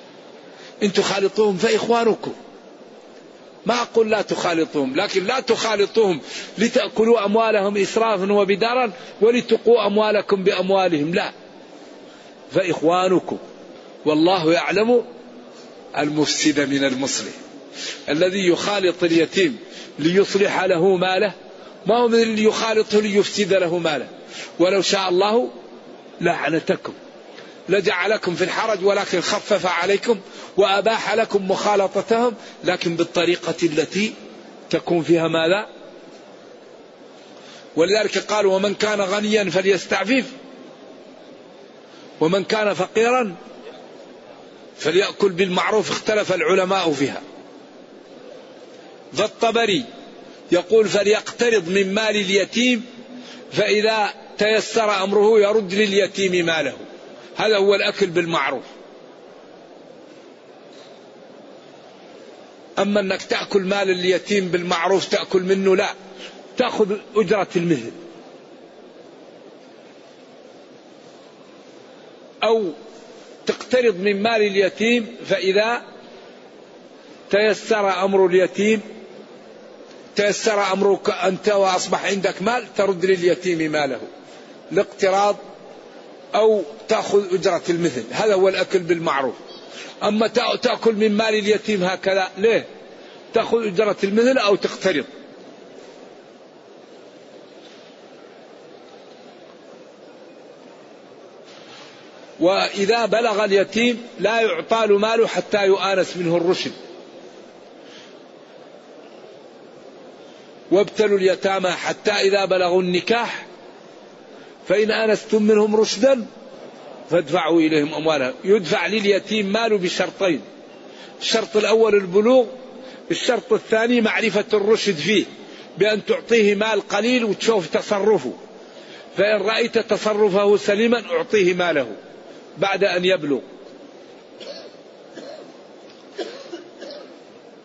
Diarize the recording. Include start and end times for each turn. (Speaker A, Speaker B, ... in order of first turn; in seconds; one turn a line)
Speaker A: 0.8-2.3
Speaker A: 3.6-11.3
Speaker A: 12.5-13.4
Speaker A: 14.0-15.0
Speaker A: 15.9-17.4
Speaker A: 18.1-25.5
Speaker A: 26.2-27.0
Speaker A: 27.7-34.1
Speaker A: 34.7-35.7
Speaker A: 37.8-40.3
Speaker A: 42.2-43.4
Speaker A: 44.8-47.2
Speaker A: 49.1-49.8
Speaker A: 50.5-52.9
Speaker A: 53.5-56.8
Speaker A: 57.4-58.7
Speaker A: 62.8-65.9
Speaker A: 66.5-68.0
Speaker A: 72.4-72.7
Speaker A: 73.4-75.8
Speaker A: 77.3-78.8
Speaker A: 80.1-84.1
Speaker A: 84.7-85.4
Speaker A: 86.3-89.4
Speaker A: 90.0-92.7
Speaker A: 93.3-95.1
Speaker A: 102.4-106.7
Speaker A: 110.7-113.5
Speaker A: 114.7-116.2
Speaker A: 117.1-120.4
Speaker A: 121.2-122.5
Speaker A: 123.1-128.4
Speaker A: 129.1-131.9
Speaker A: 132.6-133.4